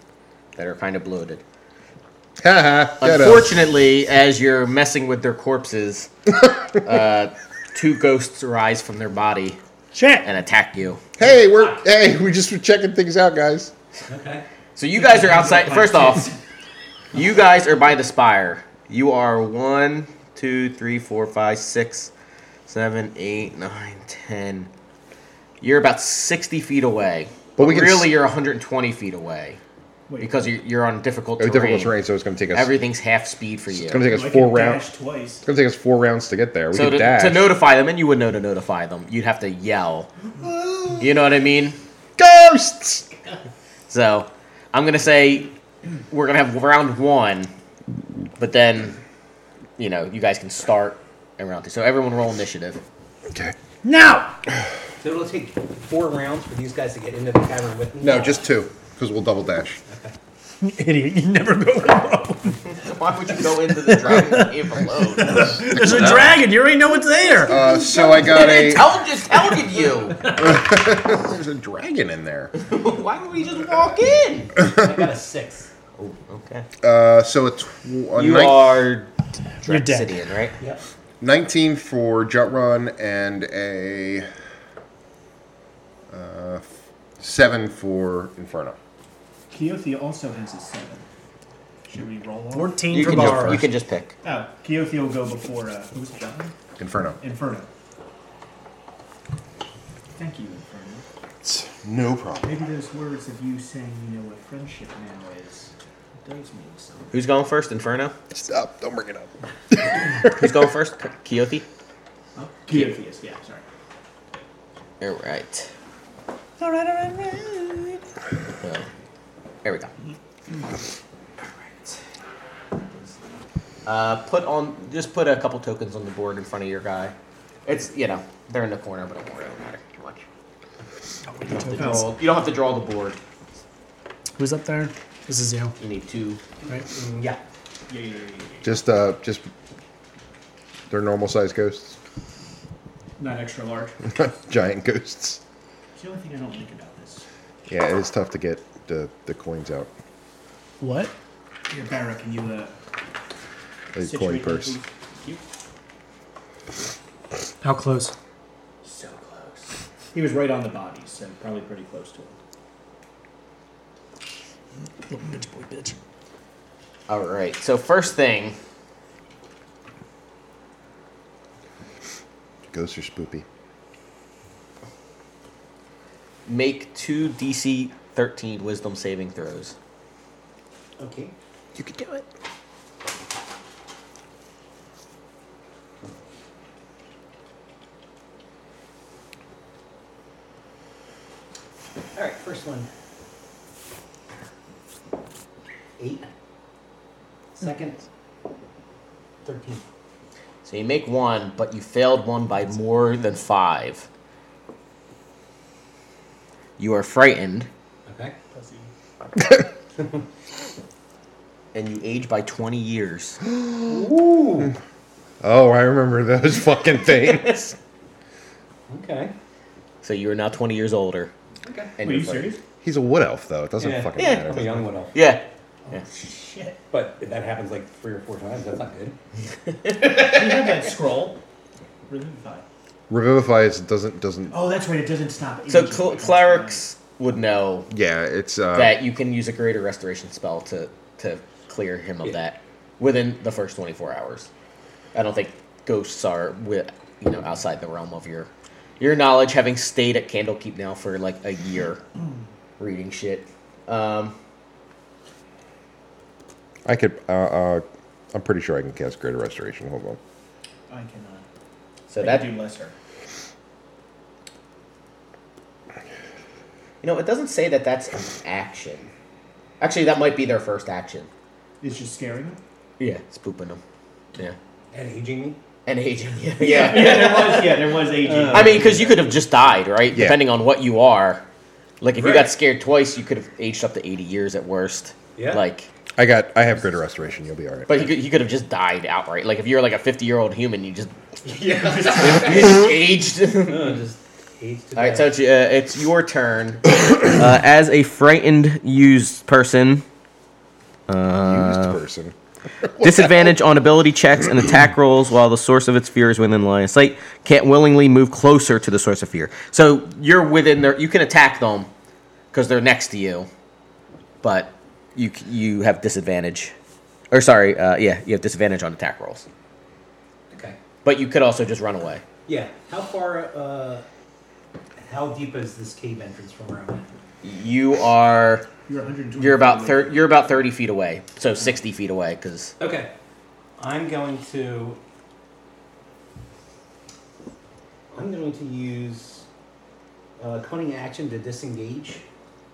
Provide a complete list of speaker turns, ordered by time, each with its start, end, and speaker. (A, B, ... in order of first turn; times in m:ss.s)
0:00.6-0:01.4 A
0:02.4-0:03.6 B
0:03.0-0:06.1 A
0:06.8-0:09.6 A
0:09.9-0:10.3 C
0:10.2-0:11.0 A
0:11.2-0:13.7 B
0:11.2-0:11.8 D
0:14.1-0:14.5 D
0:14.8-0:16.3 A
0:15.0-0:16.4 E
0:17.1-0:22.1 A
0:22.7-0:24.7 A
0:25.6-0:29.6 A
0:27.6-0:28.1 B
0:30.1-0:30.4 E
0:30.2-0:32.0 A
0:31.4-0:32.7 B
0:32.5-0:34.0 A
0:33.7-0:34.9 B
0:34.0-0:35.4 E
0:35.4-0:37.5 B
0:36.7-0:40.1 A
0:41.0-0:41.8 A
0:42.2-0:43.1 B
0:43.9-0:45.5 A
0:46.1-0:47.5 A
0:48.4-0:49.0 A
0:49.8-0:52.8 A
0:53.3-0:53.6 B
0:53.8-0:54.4 C
0:55.0-0:58.4 D
0:58.0-0:59.8 B
0:59.9-1:00.1 D
1:00.6-1:02.8 C
1:02.7-1:06.3 A
1:03.7-1:07.6 C
1:07.4-1:08.9 B
1:07.5-1:08.6 D
1:08.2-1:10.3 A
1:10.3-1:12.5 B
1:12.5-1:14.5 A
1:14.6-1:15.7 D
1:16.0-1:16.7 A
1:16.8-1:18.8 B
1:18.2-1:19.1 A
1:19.6-1:20.6 A
1:19.6-1:20.2 C
1:21.2-1:24.3 B
1:26.1-1:26.7 B
1:27.2-1:28.8 B
1:29.5-1:31.0 E
1:31.9-1:32.8 E
1:32.5-1:33.7 C
1:32.9-1:34.2 A
1:33.1-1:33.5 B
1:34.2-1:36.5 E
1:36.8-1:37.2 B
1:37.2-1:37.7 E
1:40.2-1:41.0 E
1:41.4-1:42.5 B
1:42.4-1:45.7 E
1:46.2-1:47.2 E
1:47.1-1:48.2 A
1:48.3-1:50.5 B
1:50.2-1:51.6 A
1:52.4-1:53.6 E
1:52.7-1:53.0 A
1:55.0-1:55.7 A
1:56.6-1:58.0 C
1:58.6-1:58.9 A
1:59.6-1:59.9 A
2:03.9-2:07.1 A
2:07.7-2:10.3 A
2:11.3-2:12.1 C
2:11.5-2:13.2 A
2:11.8-2:12.1 E
2:14.4-2:15.8 C
2:15.8-2:16.4 A
2:16.9-2:17.4 D
2:17.9-2:18.8 E
2:18.6-2:19.5 B
2:20.9-2:22.0 B
2:23.2-2:24.0 E
2:24.1-2:25.4 B
2:26.0-2:27.2 E
2:27.7-2:29.9 B
2:30.8-2:31.1 C
2:31.7-2:32.7 E
2:33.9-2:34.8 B
2:34.0-2:35.4 E
2:37.6-2:38.1 C
2:38.8-2:42.3 E
2:45.1-2:46.0 C
2:47.1-2:48.6 A
2:52.7-2:53.4 B
2:56.5-2:59.8 A
3:01.0-3:01.3 D
3:12.2-3:12.9 D
3:16.0-3:16.3 D
3:17.6-3:18.0 D
3:19.4-3:19.8 D
3:20.6-3:24.1 A
3:26.8-3:27.7 A
3:28.1-3:28.4 D
3:28.5-3:28.9 E
3:31.7-3:33.4 A
3:33.6-3:34.0 B
3:33.8-3:34.7 D
3:35.4-3:37.8 B
3:37.2-3:37.5 A
3:38.9-3:39.3 D
3:40.0-3:41.3 A
3:41.6-3:41.9 D
3:42.0-3:42.6 A
3:42.0-3:42.6 E
3:42.8-3:44.8 B
3:43.8-3:45.2 D
3:44.2-3:46.0 A
3:45.9-3:46.8 E
3:46.9-3:49.2 D
3:49.8-3:50.4 A
3:50.2-3:51.4 E
3:52.1-3:52.6 E
3:53.1-3:54.6 B
3:54.5-3:56.8 E
3:55.7-3:57.9 A
3:57.9-3:59.0 B
3:58.7-4:04.5 A
4:05.1-4:12.0 A
4:12.8-4:14.4 A
4:16.8-4:20.2 B
4:20.9-4:21.4 E
4:22.1-4:22.5 A
4:22.2-4:22.9 E
4:27.0-4:29.1 A
4:29.8-4:31.3 A
4:31.8-4:32.6 E
4:33.0-4:33.8 A
4:34.9-4:35.6 D
4:35.9-4:37.6 A
4:36.6-4:39.1 E
4:36.8-4:39.2 D
4:38.5-4:41.4 A
4:40.1-4:40.4 B
4:42.0-4:45.9 A
4:42.1-4:42.5 D
4:45.4-4:45.6 D
4:46.2-4:48.1 B
4:47.9-4:51.1 A
4:51.5-4:52.8 D
4:51.7-4:52.8 E
4:52.1-4:54.0 A
4:53.6-4:55.3 D
4:55.0-5:00.0 A
5:01.1-5:02.0 A
5:01.4-5:03.5 B
5:03.0-5:11.9 A
5:12.5-5:13.5 A
5:14.4-5:16.7 A
5:17.3-5:19.5 A
5:20.5-5:20.8 D
5:21.0-5:22.2 A
5:22.5-5:24.0 D
5:25.0-5:27.1 D
5:27.4-5:28.7 A
5:28.9-5:30.3 E
5:29.4-5:32.7 A
5:32.8-5:33.1 D
5:33.8-5:35.0 D
5:38.1-5:39.4 D
5:40.4-5:42.2 D